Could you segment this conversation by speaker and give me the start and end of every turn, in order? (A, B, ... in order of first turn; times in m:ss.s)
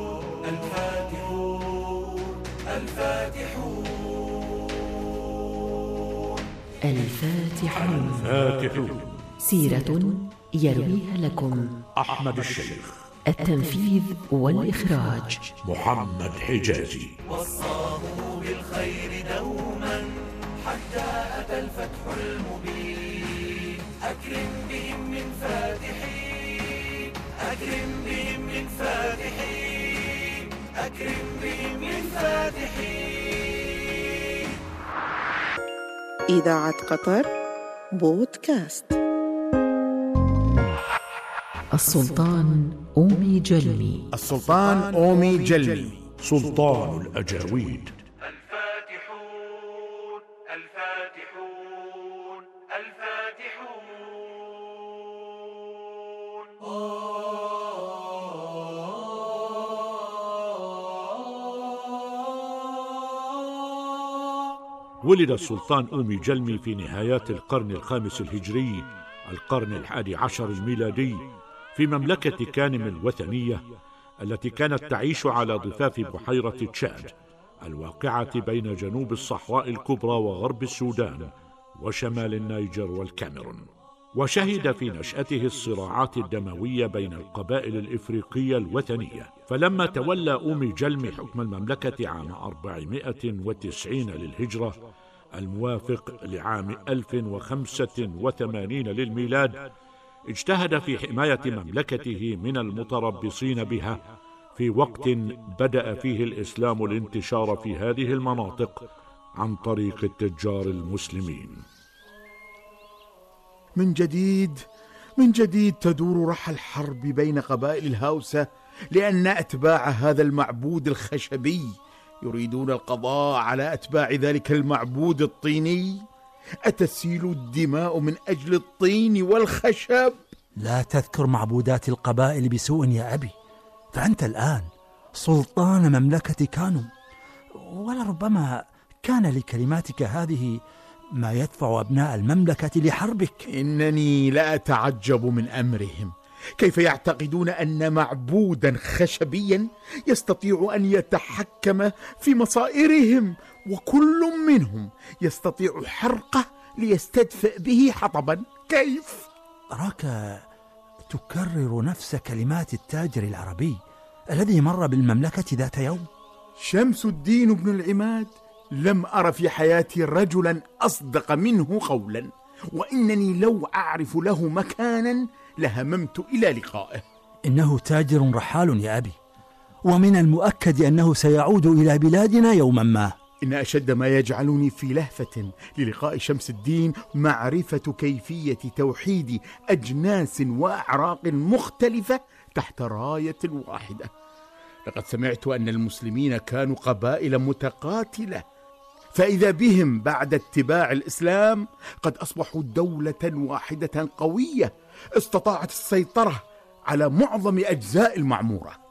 0:06.8-0:08.3 A
0:07.7-0:09.2 B
0:09.4-0:11.7 A
0:12.0-0:13.0 B
0:13.2-0:15.5 A
0:15.6-0:17.1 B
0:17.6-0:20.0 C
0:21.1-0:26.3 C
0:27.4-0:29.6 C
0:30.8-0:33.0 C
0:36.3-0:37.3 D
0:37.9-0:39.0 D
0:41.7-0:44.1 A
0:44.1-0:46.0 E
0:46.2-0:48.0 B
0:48.7-0:49.7 C
0:50.5-0:51.3 C
1:05.0-1:13.6 B
1:14.2-1:17.1 B
1:17.6-1:21.3 B
1:21.8-1:23.6 B
1:24.2-1:34.8 B
1:35.4-1:39.7 B
1:40.3-1:44.0 B
1:44.6-1:48.8 B
1:49.4-1:51.6 B
1:53.8-1:54.6 E
1:55.2-2:01.7 E
2:02.2-2:06.0 E
2:06.6-2:10.2 E
2:10.6-2:13.3 F
2:13.9-2:16.9 F
2:17.5-2:20.6 F
2:21.1-2:23.4 F
2:23.5-2:39.3 E
2:39.7-2:40.4 F
2:41.0-2:46.1 F
2:46.6-2:57.0 E
2:57.4-2:59.2 F
2:59.8-3:03.1 F
3:03.4-3:14.1 E
3:14.8-3:18.4 E
3:19.1-3:28.8 E